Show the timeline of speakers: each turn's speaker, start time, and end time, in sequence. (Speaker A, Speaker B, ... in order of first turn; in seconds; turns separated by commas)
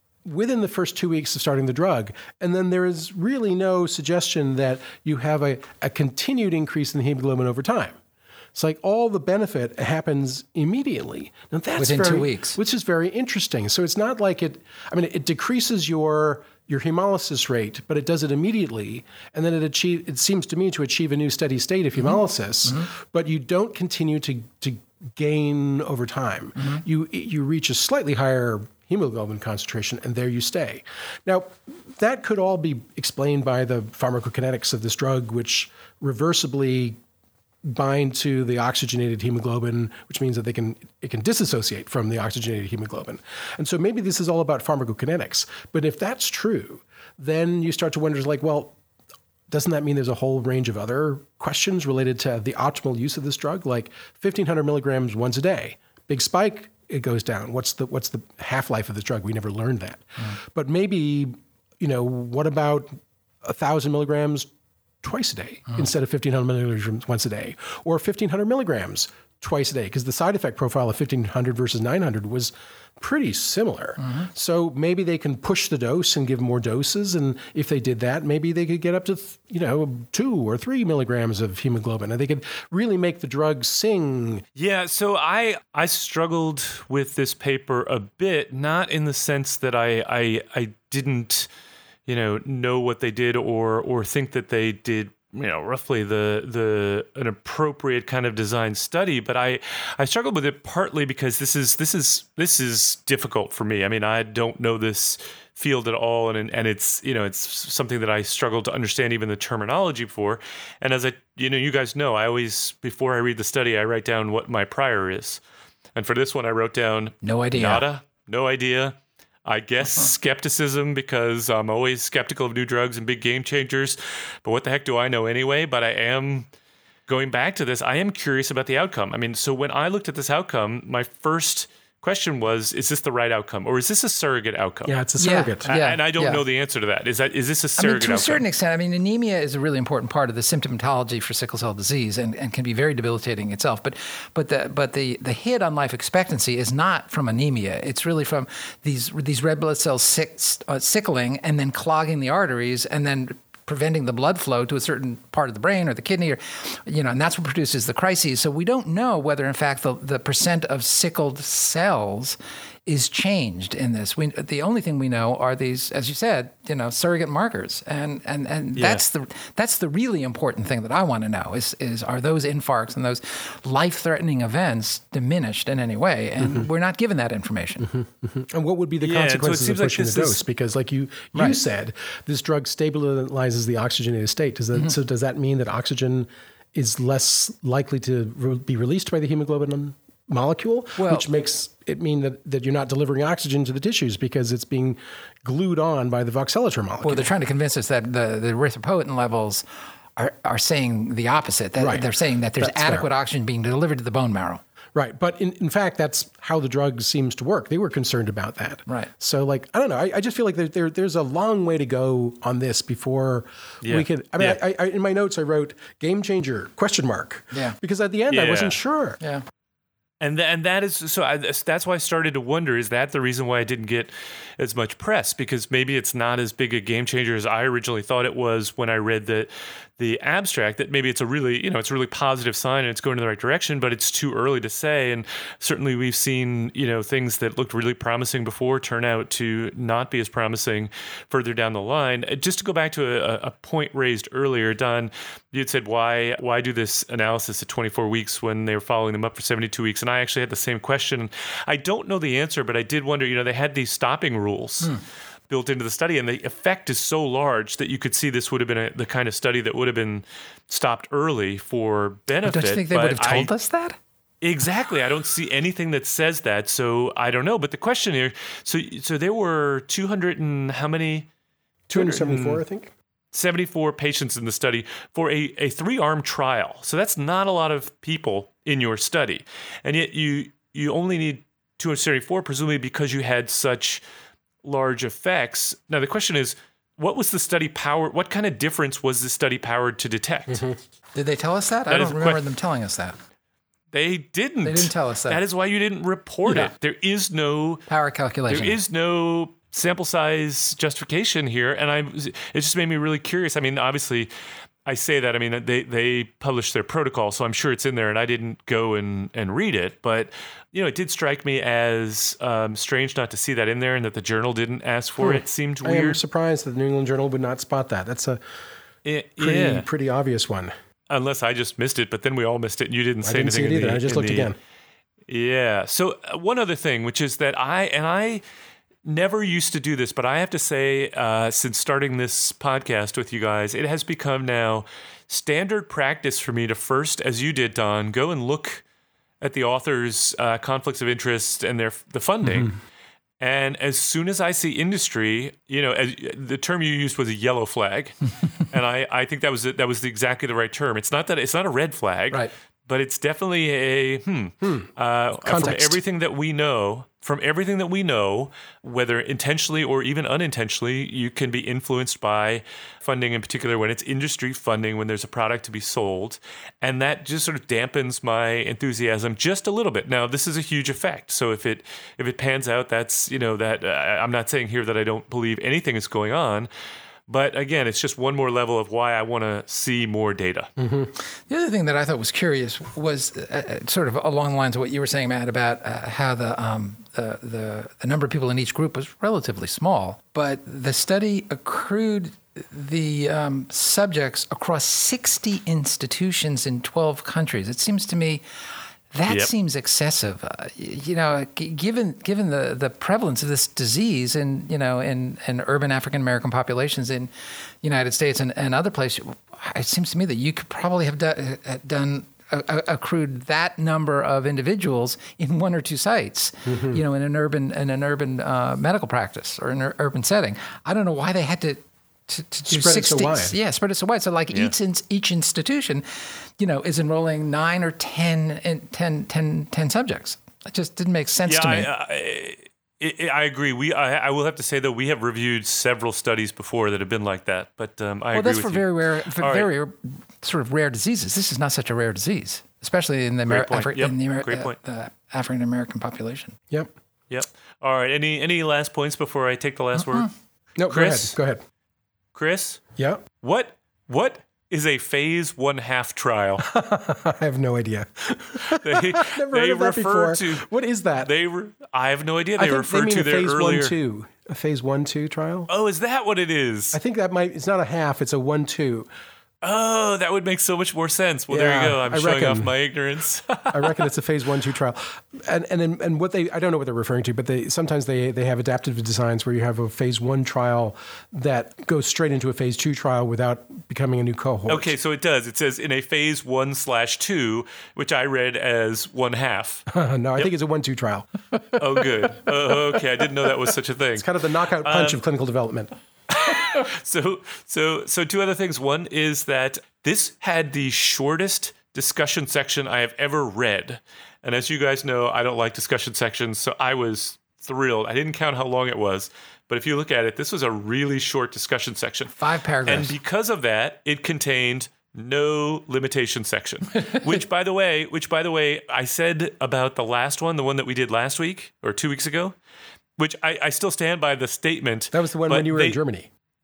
Speaker A: 0.2-8.0, Speaker A: 8.5-37.0, Speaker B: 11.8-12.6, Speaker A: 37.6-48.7, Speaker A: 49.5-64.5, Speaker A: 65.0-84.4, Speaker C: 84.5-91.5, Speaker C: 92.1-115.4, Speaker C: 115.9-126.5, Speaker B: 117.2-117.8, Speaker C: 127.1-134.9, Speaker A: 134.8-135.7, Speaker B: 135.2-136.4, Speaker C: 135.7-138.4, Speaker B: 137.8-177.9, Speaker C: 168.8-169.0, Speaker A: 176.4-176.7, Speaker A: 177.8-197.3, Speaker C: 179.0-180.4, Speaker B: 191.0-191.3, Speaker B: 197.0-199.6, Speaker B: 200.2-204.6, Speaker A: 201.8-202.1, Speaker A: 202.6-203.1, Speaker A: 204.9-219.2, Speaker C: 213.8-214.6, Speaker C: 218.3-218.8, Speaker C: 220.2-254.9, Speaker C: 255.5-263.5, Speaker B: 262.4-264.0, Speaker C: 264.4-271.3, Speaker A: 271.9-272.9, Speaker C: 271.9-272.6, Speaker C: 273.3-284.0, Speaker C: 284.6-290.6, Speaker A: 290.5-290.8, Speaker B: 291.1-293.2, Speaker C: 291.9-292.4, Speaker C: 293.9-297.8, Speaker B: 294.6-295.4, Speaker B: 297.9-298.8, Speaker C: 298.5-304.3, Speaker C: 304.9-316.2, Speaker A: 315.2-318.4, Speaker C: 319.0-319.9, Speaker A: 319.4-320.7, Speaker C: 321.1-324.5, Speaker A: 323.2-324.6, Speaker C: 325.3-328.4, Speaker C: 329.1-338.8, Speaker C: 339.4-342.7, Speaker C: 343.4-376.7, Speaker A: 354.6-356.0, Speaker C: 377.3-380.7, Speaker A: 380.8-381.1, Speaker B: 381.5-398.4, Speaker B: 399.1-407.3, Speaker B: 407.8-426.0, Speaker A: 416.6-417.0, Speaker A: 422.7-423.5, Speaker B: 426.6-431.9, Speaker C: 431.5-439.7, Speaker B: 438.3-446.6, Speaker C: 443.5-444.7, Speaker C: 447.3-450.3, Speaker B: 449.9-450.3, Speaker A: 450.8-451.6, Speaker C: 450.9-451.4, Speaker C: 452.3-452.8, Speaker A: 453.0-453.2, Speaker C: 453.4-456.6, Speaker A: 456.6-461.3, Speaker C: 458.8-460.6, Speaker C: 461.2-463.9, Speaker A: 462.6-465.7, Speaker C: 465.7-467.0, Speaker A: 466.9-469.1, Speaker C: 469.6-474.0, Speaker A: 471.5-472.7, Speaker A: 473.7-484.9, Speaker C: 484.7-489.8, Speaker A: 489.9-491.3, Speaker C: 491.8-494.3, Speaker A: 494.1-495.9, Speaker C: 494.8-495.2, Speaker C: 496.3-512.3, Speaker B: 512.4-513.1, Speaker C: 512.9-522.5, Speaker C: 523.2-526.0, Speaker A: 525.1-526.3